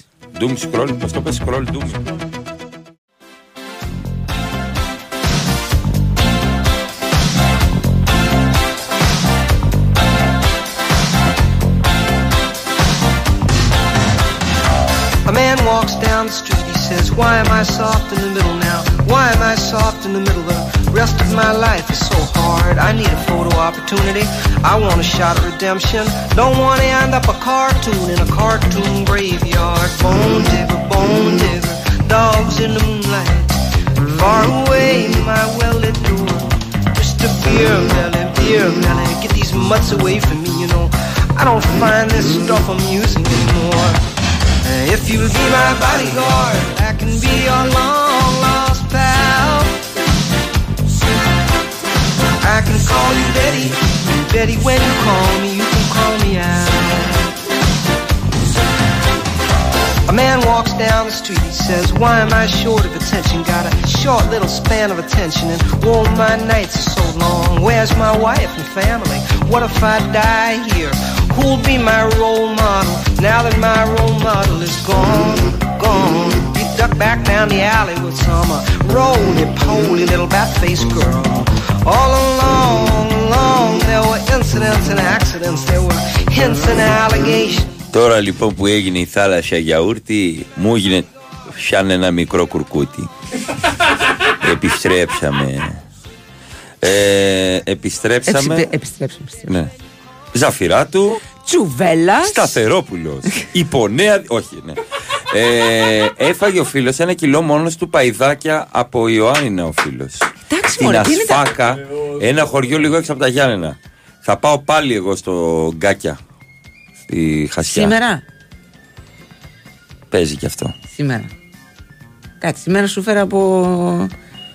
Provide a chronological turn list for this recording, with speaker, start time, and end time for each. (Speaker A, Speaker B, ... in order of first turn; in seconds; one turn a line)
Speaker A: 0.3-2.0
Speaker B: 15.2-33.5
Speaker B: 34.1-44.1
Speaker B: 44.6-49.8
Speaker B: 52.4-57.2
Speaker B: 60.1-87.7
Speaker A: 87.9-93.1
Speaker A: 94.4-95.8
Speaker A: 96.8-98.7
Speaker C: 98.3-99.5
Speaker A: 100.3-101.2
Speaker C: 101.4-102.6
Speaker A: 102.2-104.8
Speaker A: 105.3-110.2
Speaker C: 110.5-111.5
Speaker A: 110.8-116.2
Speaker A: 117.1-118.0
Speaker C: 117.7-118.2
Speaker A: 120.1-120.8
Speaker C: 120.9-121.3
Speaker C: 122.4-124.1